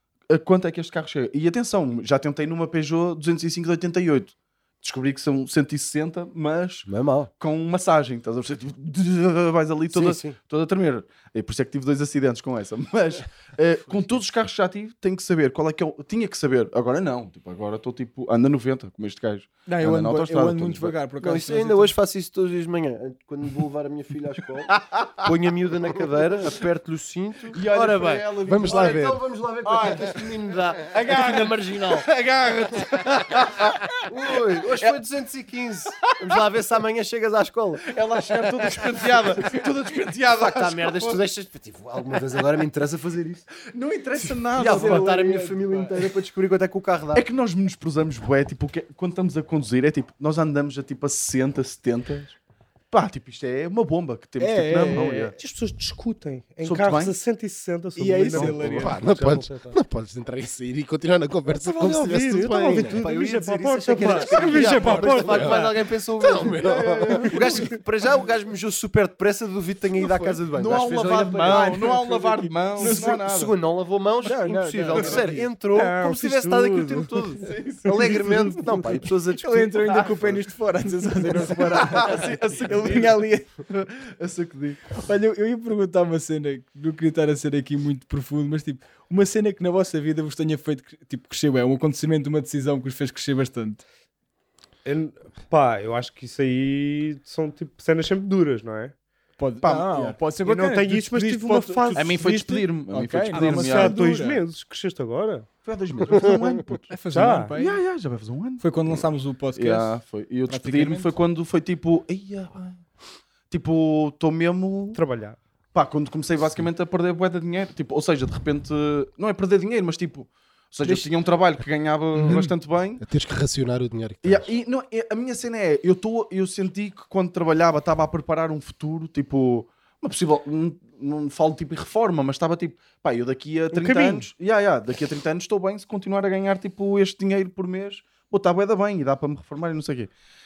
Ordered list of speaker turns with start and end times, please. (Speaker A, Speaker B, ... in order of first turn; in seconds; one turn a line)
Speaker A: 0.3-6.9
Speaker B: 6.8-7.3
Speaker A: 7.4-20.9
Speaker B: 9.9-10.4
Speaker C: 19.7-21.9
Speaker B: 21.2-32.1
Speaker A: 24.7-25.3
Speaker A: 27.5-30.3
Speaker D: 28.5-29.0
Speaker A: 30.9-35.0
Speaker B: 32.8-33.4
Speaker B: 34.1-38.0
Speaker A: 37.9-41.2
Speaker B: 40.4-43.5
Speaker A: 43.6-45.3
Speaker B: 44.5-47.2
Speaker C: 44.6-45.9
Speaker A: 47.1-52.4
Speaker A: 52.9-55.4
Speaker C: 54.4-55.3
Speaker E: 55.4-59.8
Speaker A: 56.6-57.1
Speaker C: 58.0-59.0
Speaker D: 58.7-63.0
Speaker E: 61.5-65.8
Speaker B: 62.8-72.0
Speaker C: 64.0-64.6
Speaker A: 64.4-65.1
Speaker D: 64.8-67.3
Speaker A: 66.6-67.7
Speaker D: 70.0-70.3
Speaker A: 70.5-73.5
Speaker C: 71.4-73.2
Speaker B: 72.8-80.0
Speaker C: 74.2-75.5
Speaker E: 75.7-77.3
Speaker A: 77.4-78.3
Speaker E: 77.8-79.0
Speaker C: 79.4-83.5
Speaker A: 79.9-80.4
Speaker A: 81.5-84.9
Speaker C: 84.9-93.8
Speaker E: 94.8-99.0
Speaker C: 99.4-104.4
Speaker A: 99.6-100.2
Speaker E: 100.4-102.6
Speaker A: 101.9-104.0
Speaker E: 103.3-105.5
Speaker A: 105.6-106.9
Speaker E: 106.1-106.4
Speaker C: 106.9-107.8
Speaker E: 107.1-107.5
Speaker A: 107.5-109.0
Speaker C: 108.6-110.0
Speaker A: 109.5-112.8
Speaker C: 110.5-111.2
Speaker A: 113.5-115.0
Speaker E: 115.0-115.4
Speaker A: 115.7-123.0
Speaker C: 120.8-121.1
Speaker C: 122.2-122.5
Speaker D: 123.0-124.5
Speaker A: 124.2-140.1
Speaker E: 133.7-134.3